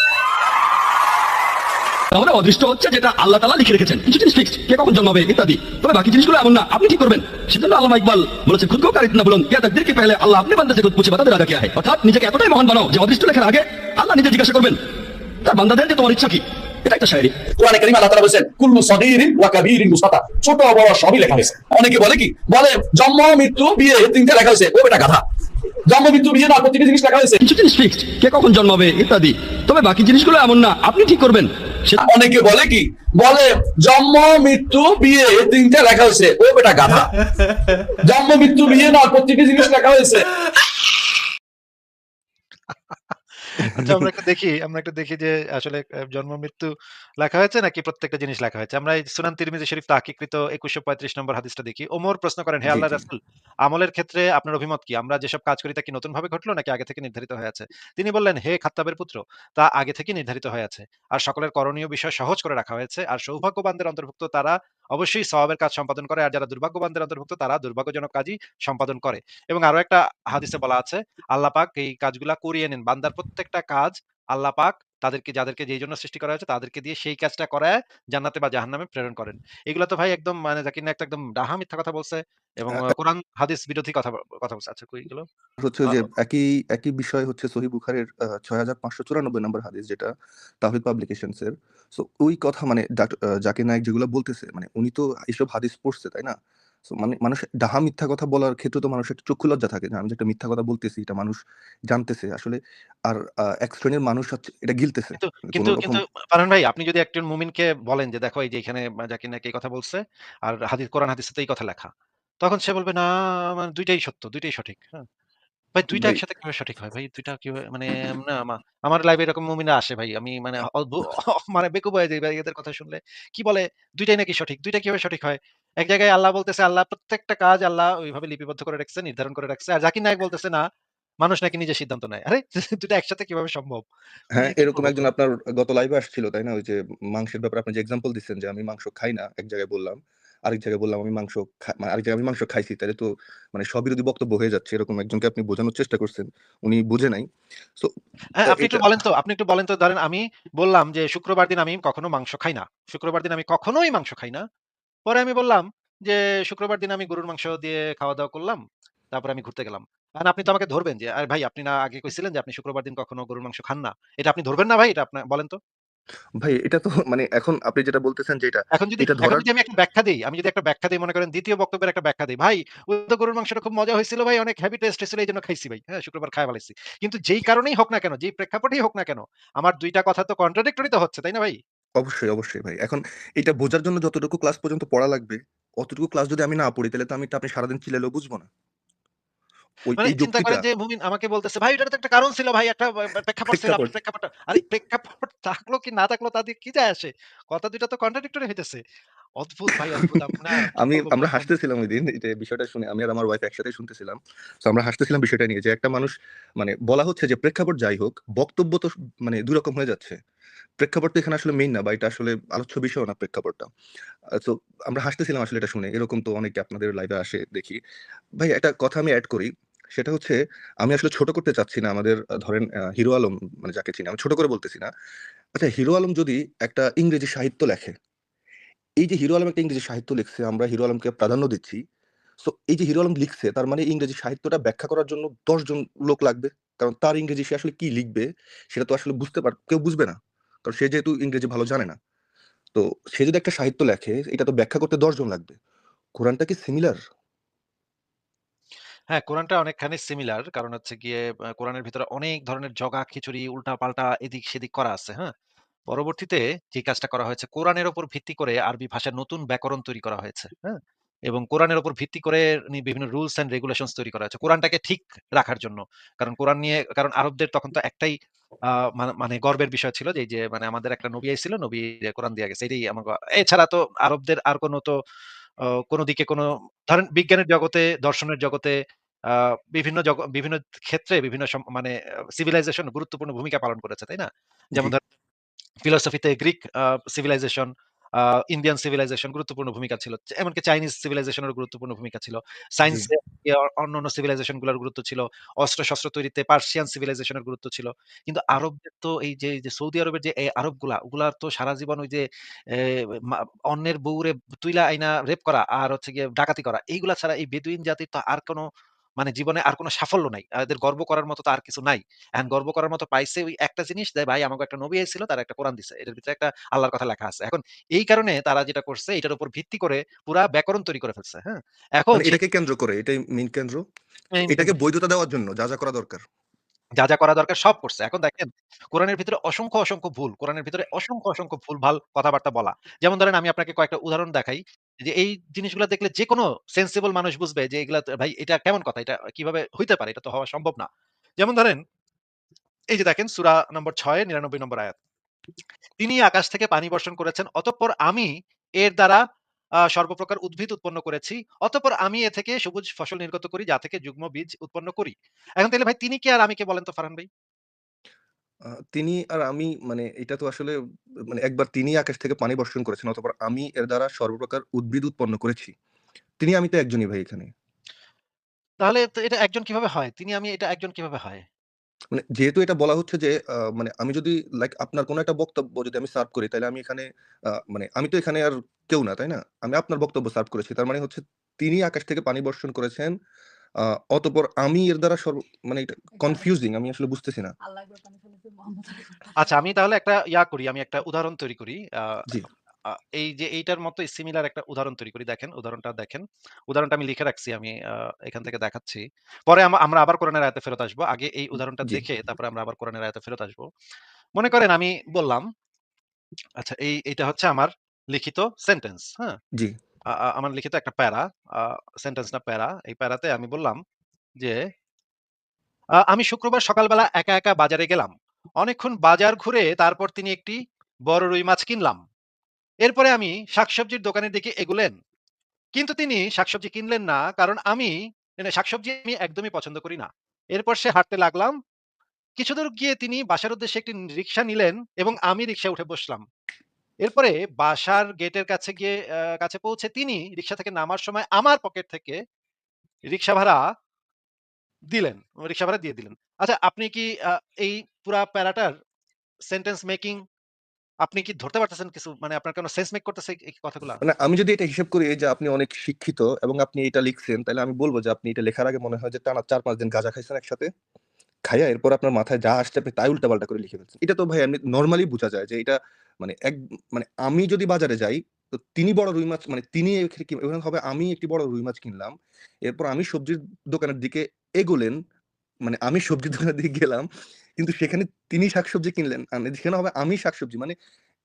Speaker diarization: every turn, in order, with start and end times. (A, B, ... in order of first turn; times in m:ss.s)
0:02.1-0:14.8 A
0:15.4-0:17.4 A
0:17.5-0:25.2 B
0:25.9-0:27.4 B
0:27.4-0:32.0 A
0:32.0-0:37.1 B
0:38.0-0:40.3 B
0:43.5-1:25.3 C
0:43.6-0:44.1 D
0:52.6-0:53.1 D
1:25.6-1:30.1 D
1:30.6-1:36.4 D
1:36.9-1:41.4 D
1:41.9-1:42.6 D
1:43.1-1:46.0 D
1:45.2-1:51.9 C
1:52.4-1:55.1 C
1:55.8-2:10.6 C
1:56.0-1:56.2 D
2:11.2-2:13.8 C
2:14.4-2:27.3 D
2:14.4-2:15.1 C
2:28.4-2:34.4 C
2:28.4-2:28.9 D
2:35.1-2:38.6 C
2:39.1-2:45.6 C
2:46.4-2:49.4 D
2:48.8-3:01.6 C
3:02.0-3:08.5 D
3:09.9-3:10.6 D
3:10.0-3:18.8 C
3:13.5-3:13.9 D
3:19.4-3:21.5 C
3:20.8-3:30.2 D
3:30.8-3:33.7 D
3:34.4-3:37.8 D
3:38.4-3:44.9 D
3:45.6-3:47.9 D
3:49.0-3:51.8 D
3:52.4-4:02.0 D
4:02.8-4:05.6 D
4:06.2-4:07.0 D
4:09.1-4:15.3 C
4:15.9-4:20.8 C
4:21.3-4:28.2 C
4:29.0-4:34.9 C
4:35.9-4:38.8 C
4:39.3-4:45.0 C
4:45.8-5:08.7 C
4:52.8-4:53.1 D
5:09.2-5:22.4 C
5:22.1-5:23.8 D
5:24.3-5:24.8 C
5:24.5-5:26.2 D
5:27.0-5:40.9 C
5:41.4-5:41.8 C
5:42.9-5:45.0 C
5:46.0-5:49.2 C
5:49.9-5:57.3 C
5:58.9-6:00.7 D
6:01.3-6:05.7 D
6:06.4-6:07.5 D
6:08.8-6:11.4 C
6:12.1-6:23.1 D
6:23.8-6:27.5 D
6:29.4-6:32.2 C
6:32.9-6:43.7 C
6:44.4-6:45.5 C
6:46.6-6:49.4 C
6:50.1-6:53.8 C
6:56.1-7:00.6 C
7:01.1-7:02.0 C
7:02.8-7:05.0 C
7:05.8-7:11.6 C
7:12.4-7:16.2 C
7:17.0-7:22.2 C
7:23.1-7:23.6 C
7:24.9-7:28.7 C
7:29.5-7:30.2 C
7:31.0-7:34.0 C
7:34.0-7:40.7 D
7:41.5-7:48.2 D
7:48.8-7:52.1 D
7:52.7-7:55.0 D
7:55.7-7:57.1 D
7:57.6-8:00.8 D